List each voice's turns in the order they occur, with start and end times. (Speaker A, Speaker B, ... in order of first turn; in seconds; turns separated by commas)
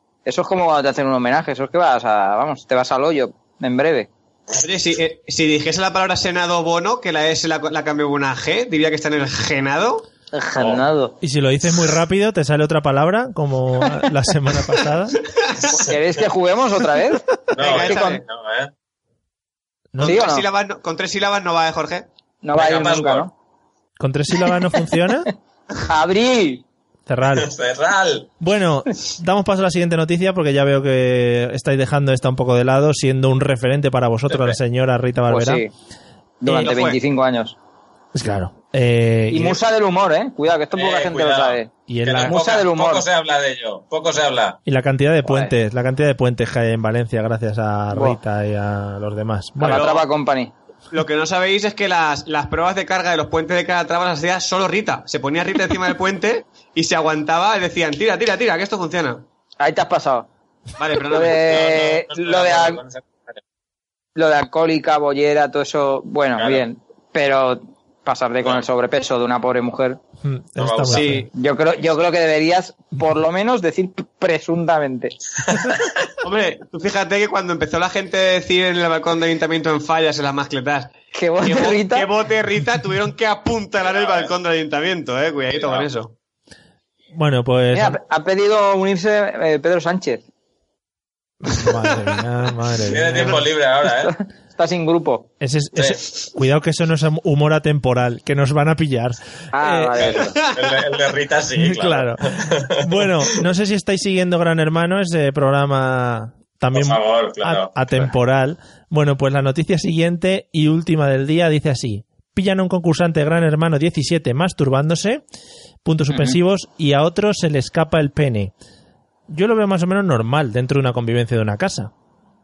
Speaker A: 0.2-4.1, Speaker B: 4.6-10.1, Speaker A: 10.3-11.1, Speaker C: 10.6-10.8, Speaker D: 11.2-15.2, Speaker A: 15.7-17.3, Speaker C: 17.5-18.7, Speaker B: 17.6-18.2, Speaker A: 17.8-18.2, Speaker D: 19.9-20.2, Speaker B: 20.0-22.1, Speaker A: 20.0-20.4, Speaker A: 22.4-23.3, Speaker C: 22.5-23.3, Speaker D: 24.0-25.3, Speaker A: 25.8-26.6, Speaker D: 27.1-27.5, Speaker C: 27.3-28.3, Speaker D: 28.4-35.6, Speaker C: 34.3-34.5, Speaker A: 35.3-35.7, Speaker A: 36.4-37.5, Speaker B: 36.5-37.0, Speaker D: 38.1-39.6, Speaker A: 39.3-41.7, Speaker C: 40.7-44.6, Speaker D: 41.9-42.4, Speaker A: 42.2-43.0, Speaker D: 44.6-49.9, Speaker A: 45.2-45.5, Speaker A: 47.9-48.2, Speaker A: 49.6-50.5, Speaker B: 49.6-50.1, Speaker B: 50.9-59.2, Speaker A: 59.6-60.3, Speaker B: 60.8-61.6, Speaker A: 61.1-62.8, Speaker C: 61.4-63.1, Speaker A: 64.2-70.0, Speaker C: 66.4-66.6, Speaker D: 70.2-71.3, Speaker C: 70.6-71.2, Speaker B: 70.9-71.2, Speaker A: 71.3-75.2, Speaker C: 75.5-75.7, Speaker B: 76.2-86.1, Speaker A: 81.1-82.1, Speaker C: 83.8-84.3, Speaker C: 85.6-85.9, Speaker D: 87.1-88.0, Speaker A: 87.7-90.2, Speaker D: 91.4-93.4, Speaker C: 92.8-94.1, Speaker A: 93.9-95.3, Speaker D: 95.4-100.2, Speaker A: 99.5-100.3, Speaker C: 100.0-103.0, Speaker B: 100.3-100.8, Speaker D: 101.5-115.2, Speaker C: 106.7-108.1, Speaker D: 115.8-118.5, Speaker A: 116.1-116.4, Speaker D: 119.3-121.9